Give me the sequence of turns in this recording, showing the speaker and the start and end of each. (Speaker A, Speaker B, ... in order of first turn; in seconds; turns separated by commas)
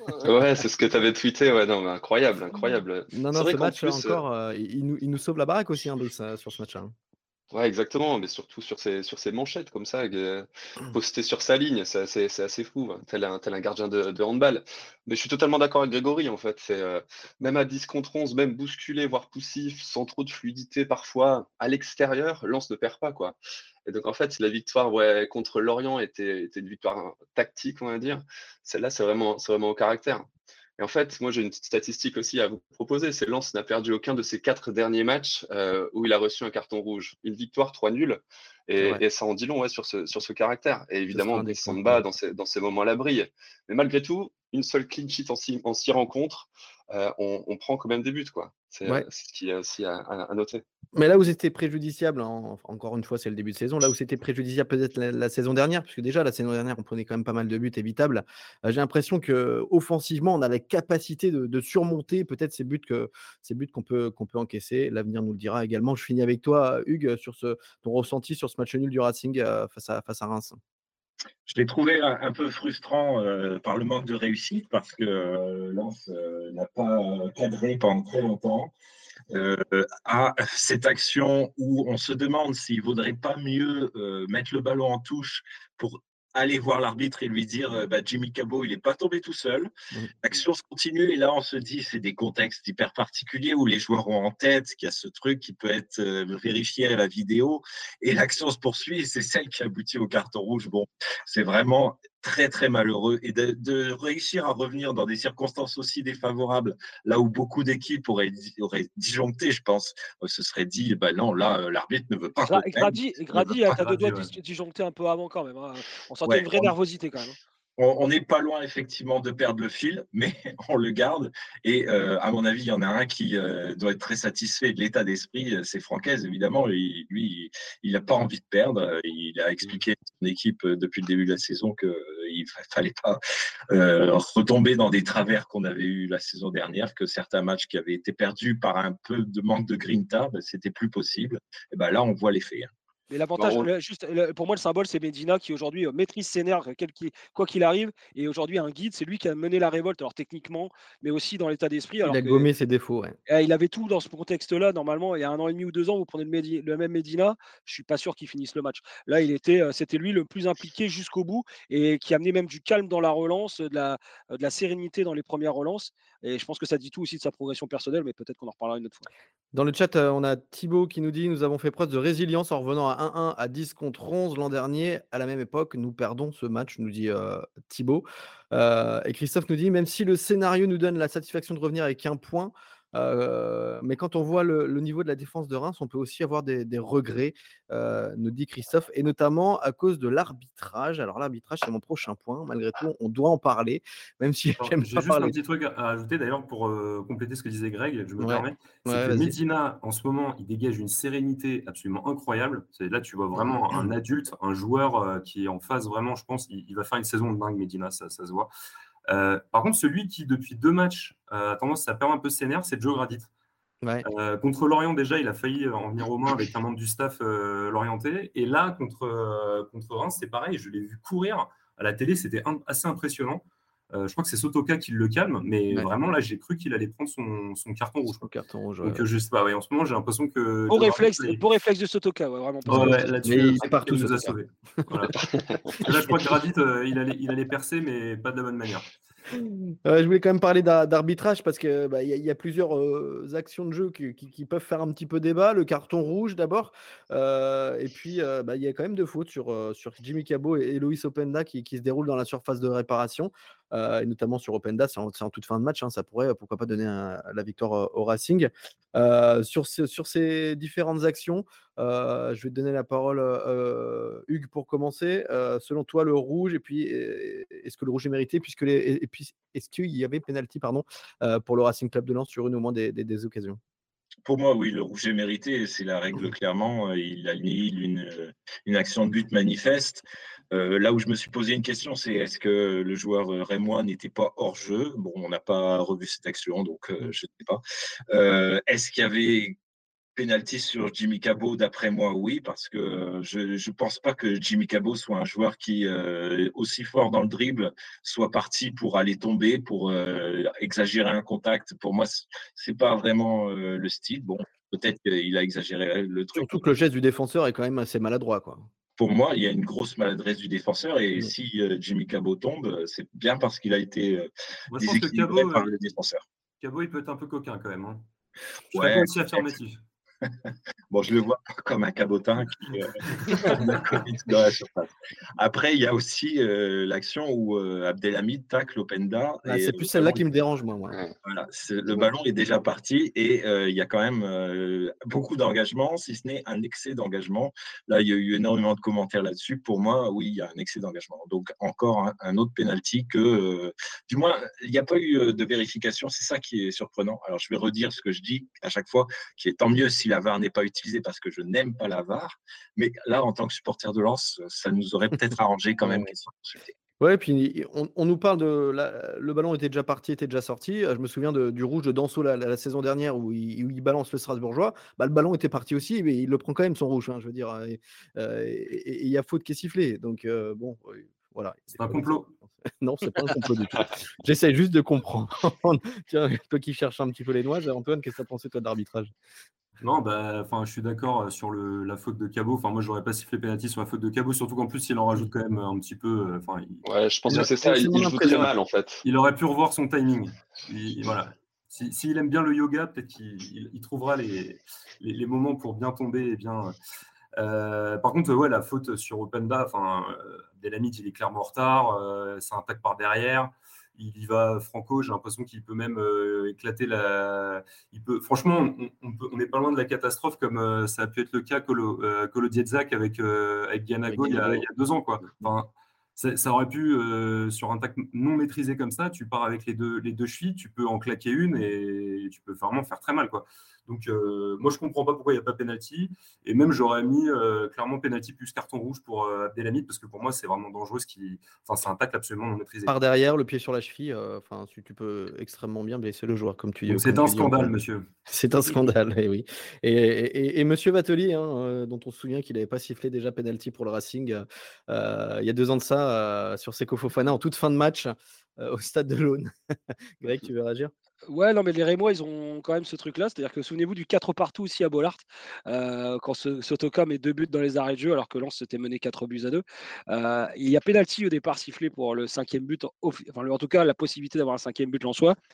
Speaker A: 0.1-4.2, Speaker B: 3.1-6.9, Speaker A: 7.5-30.3, Speaker A: 30.8-50.6, Speaker B: 41.1-42.0, Speaker B: 51.0-70.6, Speaker C: 71.5-78.7, Speaker C: 79.3-89.7, Speaker C: 90.2-113.8, Speaker D: 112.5-117.4, Speaker E: 113.7-114.3, Speaker C: 116.2-116.7, Speaker C: 117.8-133.2, Speaker C: 133.7-142.7, Speaker D: 143.1-152.5, Speaker A: 143.4-143.7, Speaker B: 152.0-153.2, Speaker D: 153.3-169.1, Speaker B: 169.5-195.3, Speaker E: 194.6-208.5, Speaker B: 198.2-199.3, Speaker E: 209.1-213.3, Speaker E: 214.0-228.2, Speaker B: 228.2-229.1, Speaker E: 228.8-231.4, Speaker D: 230.7-233.2, Speaker B: 232.7-235.2, Speaker E: 232.7-238.9, Speaker A: 235.3-235.7, Speaker B: 235.8-236.3, Speaker B: 239.3-273.6, Speaker C: 274.2-289.6, Speaker C: 290.2-306.6, Speaker B: 306.4-308.7, Speaker C: 309.0-316.2, Speaker E: 314.7-315.7, Speaker E: 316.6-318.1, Speaker E: 318.7-319.8, Speaker C: 318.7-319.5, Speaker C: 320.9-330.2, Speaker E: 323.4-324.0, Speaker B: 329.4-331.0, Speaker C: 331.2-356.7, Speaker B: 357.0-379.1, Speaker E: 371.8-372.3, Speaker E: 379.8-386.8, Speaker A: 386.8-389.0, Speaker B: 387.3-388.5, Speaker E: 389.0-396.8, Speaker E: 397.4-432.9, Speaker B: 414.1-414.6, Speaker B: 432.9-437.7, Speaker E: 436.9-438.1, Speaker B: 438.3-450.9, Speaker D: 451.3-465.4